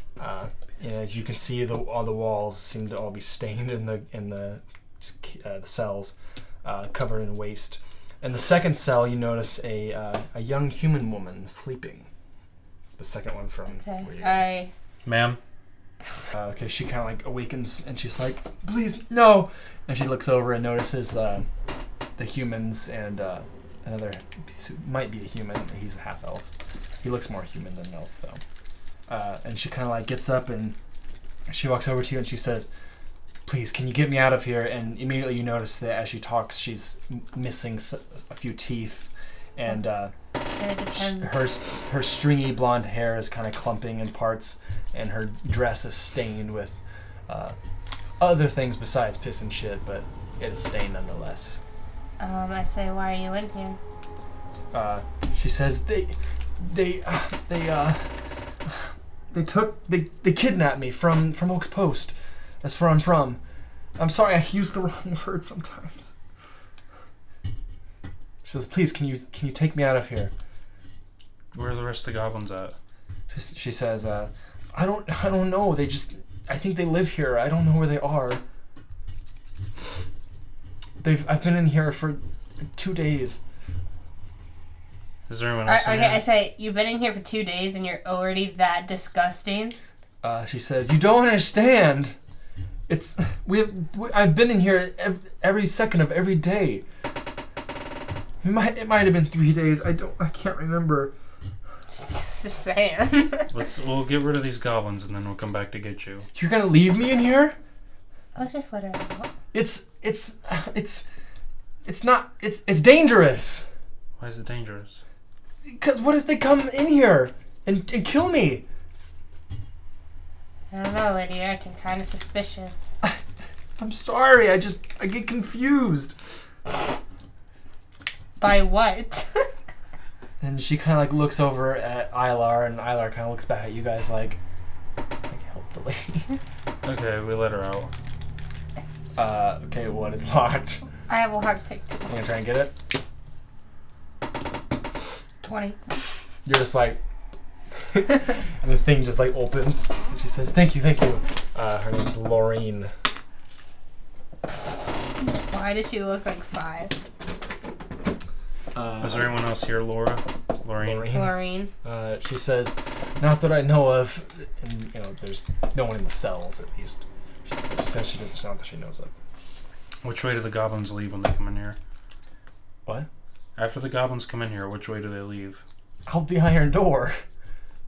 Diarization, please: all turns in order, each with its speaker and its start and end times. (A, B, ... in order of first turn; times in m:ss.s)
0:00.2-0:12.1 A
0:13.0-0:14.4 A
0:13.7-0:14.7 B
0:15.0-0:15.4 C
0:16.3-0:21.4 A
0:22.2-0:26.5 A
0:27.0-0:28.4 A
0:29.1-0:30.8 A
0:31.5-0:32.7 A
0:33.4-0:40.1 A
0:40.5-0:41.5 B
0:40.9-0:47.6 A
0:48.2-0:51.6 A
0:52.2-0:53.8 B
0:54.7-0:58.1 A
0:58.6-1:03.4 A
1:04.0-1:06.1 A
1:08.4-1:10.3 A
1:11.5-1:12.8 C
1:13.3-1:18.4 A
1:21.0-1:22.2 A
1:22.7-1:23.4 A
1:25.3-1:26.2 C
1:25.7-1:29.8 B
1:30.2-1:32.1 A
1:32.9-1:36.8 A
1:38.4-1:41.1 A
1:41.9-1:43.5 B
1:43.5-1:46.3 C
1:46.3-1:47.6 A
1:48.3-1:49.3 B
1:49.5-1:51.0 A
1:51.8-1:53.7 A
1:54.2-1:55.0 C
1:55.6-1:58.6 A
2:00.7-2:02.9 B
2:03.8-2:06.2 A
2:08.4-2:09.5 B
2:10.4-2:14.4 A
2:15.3-2:16.4 A
2:16.8-2:17.9 C
2:19.2-2:20.8 A
2:21.1-2:22.2 B
2:22.1-2:22.7 A
2:25.4-2:25.8 B
2:26.4-2:27.0 A
2:27.9-2:32.9 A
2:34.5-2:37.0 B
2:38.7-2:39.4 A
2:39.0-2:41.1 C
2:40.8-2:49.1 A
2:41.1-2:41.7 B
2:50.0-2:51.8 C
2:53.6-2:55.6 C
2:56.0-2:57.2 A